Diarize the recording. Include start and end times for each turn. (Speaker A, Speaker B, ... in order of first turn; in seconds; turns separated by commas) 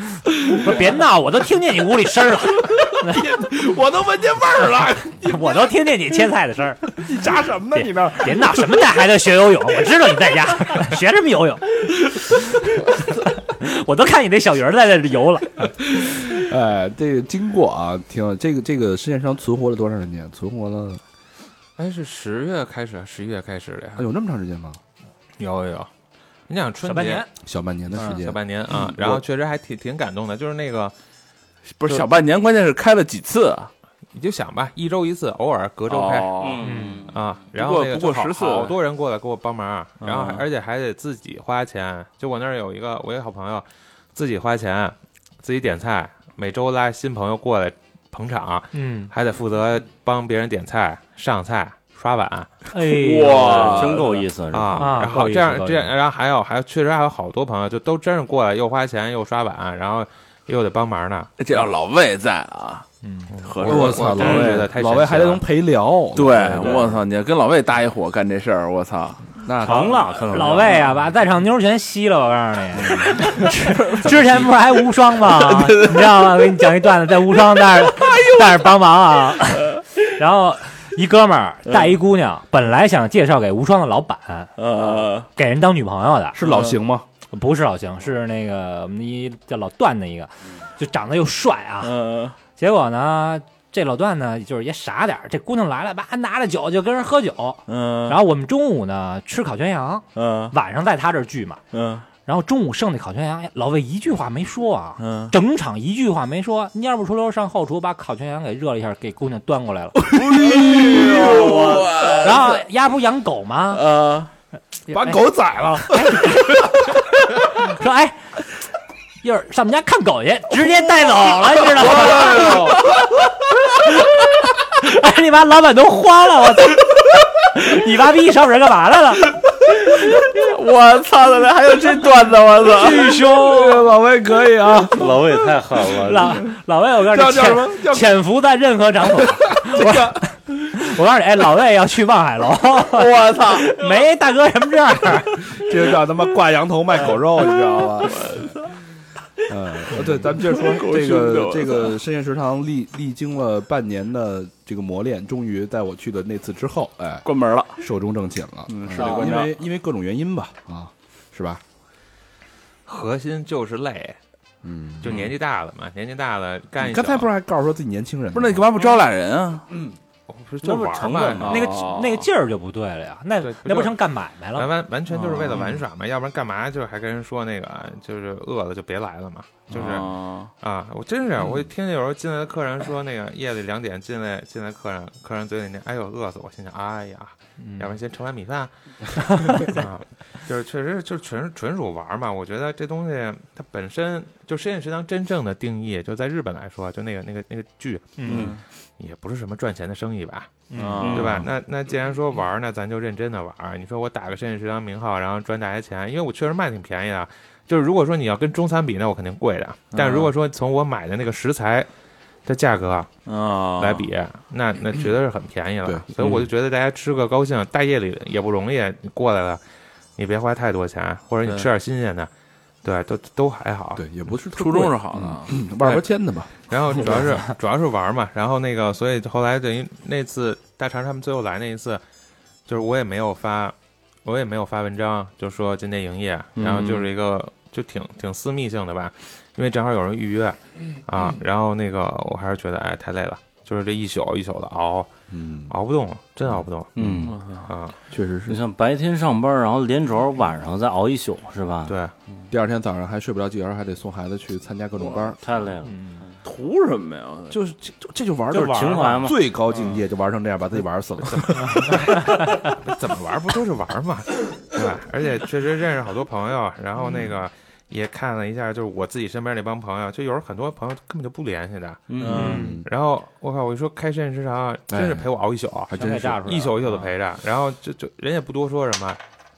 Speaker A: 0.3-3.2, Speaker B: 2.8-5.6, Speaker A: 5.2-7.1, Speaker B: 6.9-8.8, Speaker A: 7.7-15.8, Speaker B: 15.8-21.0, Speaker C: 21.8-24.0, Speaker B: 23.9-24.8, Speaker C: 25.4-25.9, Speaker C: 26.5-27.2, Speaker A: 26.8-27.3, Speaker B: 27.4-28.4, Speaker C: 28.0-30.9, Speaker D: 28.7-29.2, Speaker D: 31.7-33.7, Speaker C: 34.1-36.3, Speaker D: 35.9-36.9, Speaker E: 36.4-37.1, Speaker A: 36.6-37.1, Speaker C: 37.1-52.6, Speaker D: 37.5-38.7, Speaker D: 40.0-40.4, Speaker A: 48.7-49.1, Speaker A: 52.7-54.2, Speaker D: 52.8-54.2, Speaker E: 53.4-55.0, Speaker C: 54.5-61.3, Speaker A: 54.8-55.9, Speaker D: 61.4-62.9, Speaker A: 63.0-63.3, Speaker C: 63.3-65.4, Speaker D: 63.4-64.5, Speaker B: 63.6-67.0, Speaker D: 66.1-69.4, Speaker B: 69.4-70.7, Speaker E: 69.6-70.9, Speaker A: 69.7-84.5, Speaker D: 73.0-74.3, Speaker D: 75.2-76.4, Speaker D: 77.6-78.7, Speaker D: 84.6-85.3, Speaker A: 85.3-86.4, Speaker B: 86.3-87.0, Speaker D: 86.4-86.8, Speaker A: 87.3-91.9, Speaker D: 91.8-92.4, Speaker A: 92.5-101.6, Speaker D: 97.7-98.2, Speaker D: 100.2-100.5, Speaker D: 101.7-102.0, Speaker A: 102.2-110.0, Speaker D: 105.0-105.3, Speaker B: 110.0-111.8, Speaker D: 110.1-112.6, Speaker A: 111.1-113.9, Speaker D: 113.7-114.3, Speaker A: 114.9-118.3, Speaker B: 114.9-116.6, Speaker A: 119.2-122.8, Speaker D: 121.8-123.0, Speaker A: 123.7-129.3, Speaker D: 129.8-133.2, Speaker A: 132.7-133.9, Speaker B: 133.3-135.1, Speaker E: 134.9-136.4, Speaker A: 136.0-145.6, Speaker B: 137.1-138.1, Speaker B: 139.5-140.2, Speaker D: 142.9-143.7, Speaker B: 145.5-148.5, Speaker D: 148.0-148.6, Speaker B: 149.4-161.6, Speaker D: 150.4-151.9, Speaker D: 157.2-157.8, Speaker D: 158.7-159.5, Speaker C: 162.9-164.2, Speaker B: 164.6-165.3, Speaker C: 165.0-167.3, Speaker B: 166.8-168.6, Speaker D: 168.3-169.7, Speaker C: 170.3-171.6, Speaker E: 170.6-171.6, Speaker D: 171.4-172.3, Speaker A: 171.4-174.7, Speaker C: 173.4-174.0, Speaker C: 174.5-211.9, Speaker D: 175.2-175.7, Speaker D: 179.7-180.5, Speaker A: 187.6-187.9, Speaker A: 189.3-189.8, Speaker A: 198.2-198.5, Speaker E: 198.3-198.6, Speaker D: 198.3-198.6, Speaker A: 200.7-201.1, Speaker D: 200.7-201.5, Speaker E: 201.0-201.5, Speaker D: 209.9-210.3, Speaker C: 212.4-213.1, Speaker D: 213.2-214.1, Speaker C: 213.8-219.6, Speaker C: 220.2-222.3, Speaker C: 222.8-224.0, Speaker B: 223.9-226.5, Speaker D: 224.5-225.5, Speaker C: 226.6-232.0, Speaker C: 232.7-245.1, Speaker D: 236.6-237.1, Speaker B: 245.3-245.7, Speaker C: 245.7-246.9, Speaker E: 246.9-247.4, Speaker B: 247.0-247.3, Speaker D: 247.2-247.7, Speaker C: 247.7-247.9, Speaker B: 248.1-248.6, Speaker E: 248.5-252.4, Speaker C: 251.9-252.1, Speaker B: 252.5-255.4, Speaker E: 255.4-256.0, Speaker A: 255.8-256.2, Speaker D: 256.4-257.6, Speaker B: 257.5-262.0, Speaker E: 258.5-259.4, Speaker C: 261.4-279.2, Speaker E: 272.1-272.6, Speaker D: 272.2-272.7, Speaker B: 272.3-272.9, Speaker A: 272.3-272.8, Speaker B: 274.9-275.3, Speaker B: 275.9-276.5, Speaker A: 275.9-277.1